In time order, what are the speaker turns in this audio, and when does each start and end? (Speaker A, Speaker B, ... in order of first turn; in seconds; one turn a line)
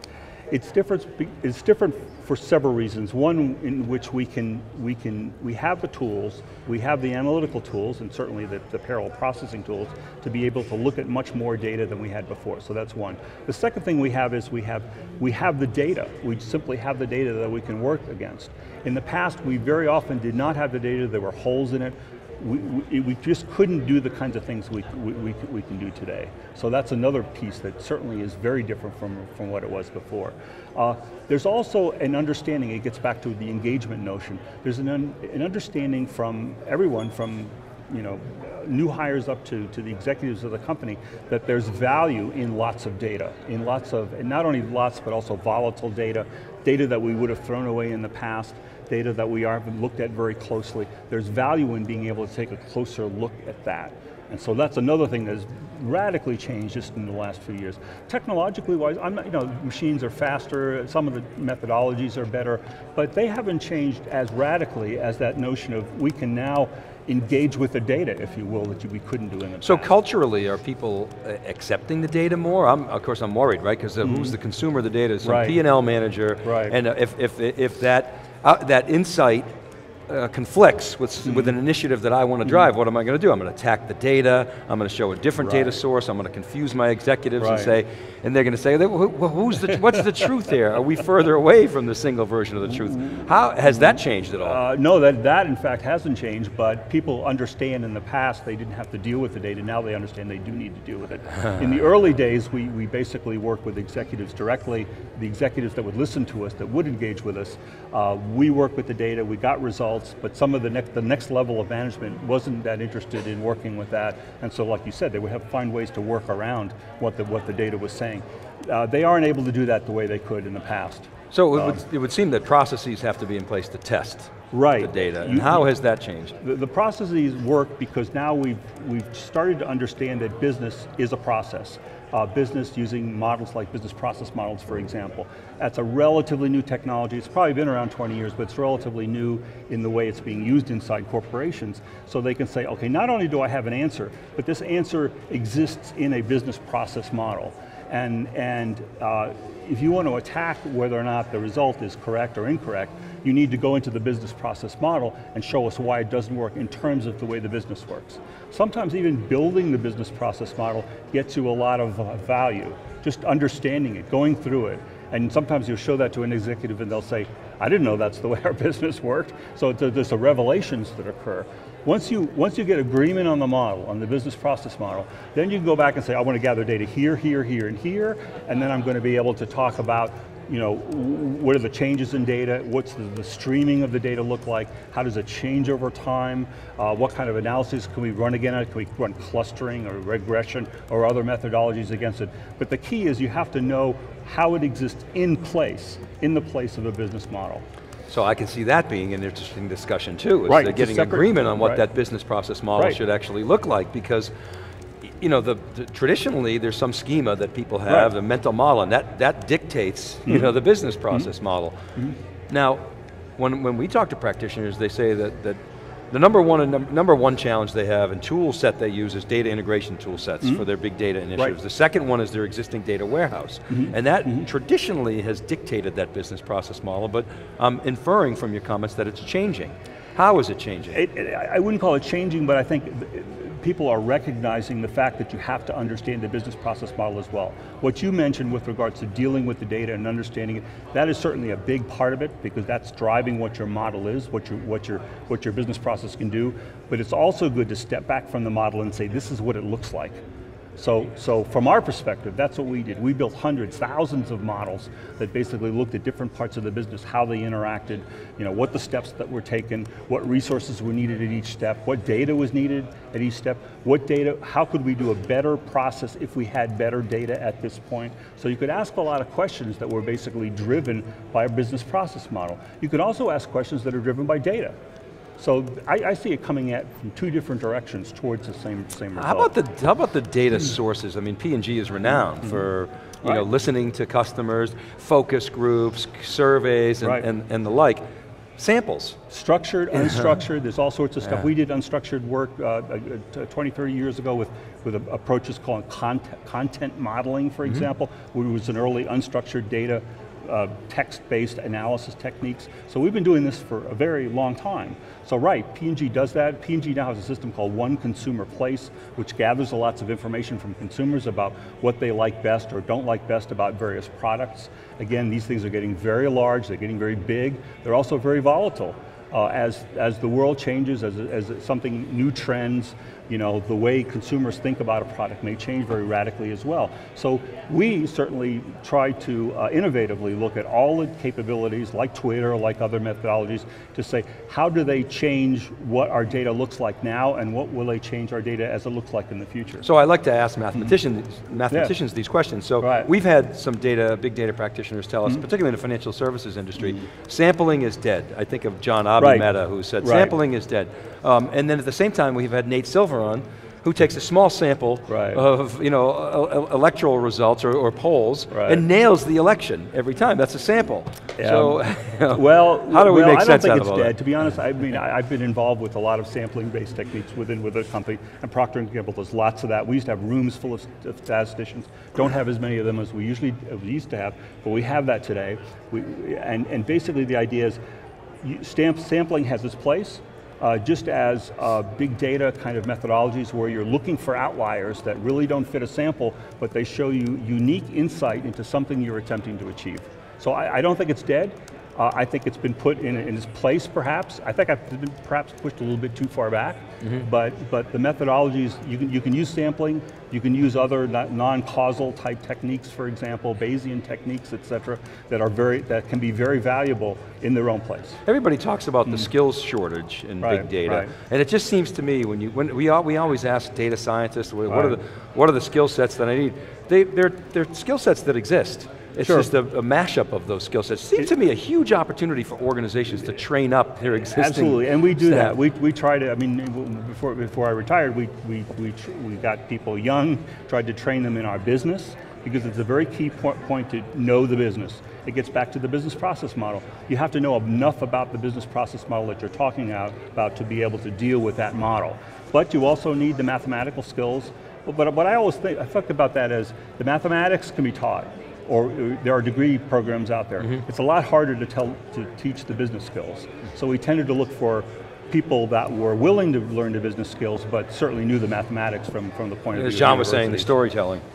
Speaker A: 0.5-69.9
Speaker B: 69.6-79.5
Speaker A: 74.0-74.3
Speaker A: 75.2-75.6
Speaker A: 76.4-76.7
Speaker B: 80.1-94.6
Speaker A: 81.2-81.5
Speaker A: 85.4-85.8
Speaker A: 87.4-87.7
Speaker A: 93.0-121.8
Speaker B: 121.3-126.3
Speaker A: 124.5-125.7
Speaker A: 126.4-197.6
Speaker B: 198.1-204.3
Speaker A: 200.5-201.8
Speaker B: 205.1-211.7
Speaker A: 210.3-210.5
Speaker B: 212.5-212.8
Speaker B: 213.4-215.6
Speaker B: 216.1-231.0
Speaker A: 223.7-224.4
Speaker A: 230.9-250.2
Speaker A: 250.8-274.8
Speaker A: 275.4-279.5
Speaker B: 279.2-288.0
Speaker B: 288.6-289.2
Speaker A: 289.3-339.8
Speaker B: 339.8-364.2
Speaker A: 342.8-343.1
Speaker A: 349.2-349.5
Speaker A: 350.0-350.3
Speaker A: 355.1-355.4
Speaker A: 358.5-358.8
Speaker A: 361.4-361.8
Speaker A: 362.3-377.8
Speaker A: 378.4-408.2
Speaker B: 408.2-425.5
Speaker A: 410.4-411.1
Speaker A: 414.7-415.0
Speaker A: 419.2-419.5
Speaker A: 424.4-460.7
Speaker B: 459.8-461.2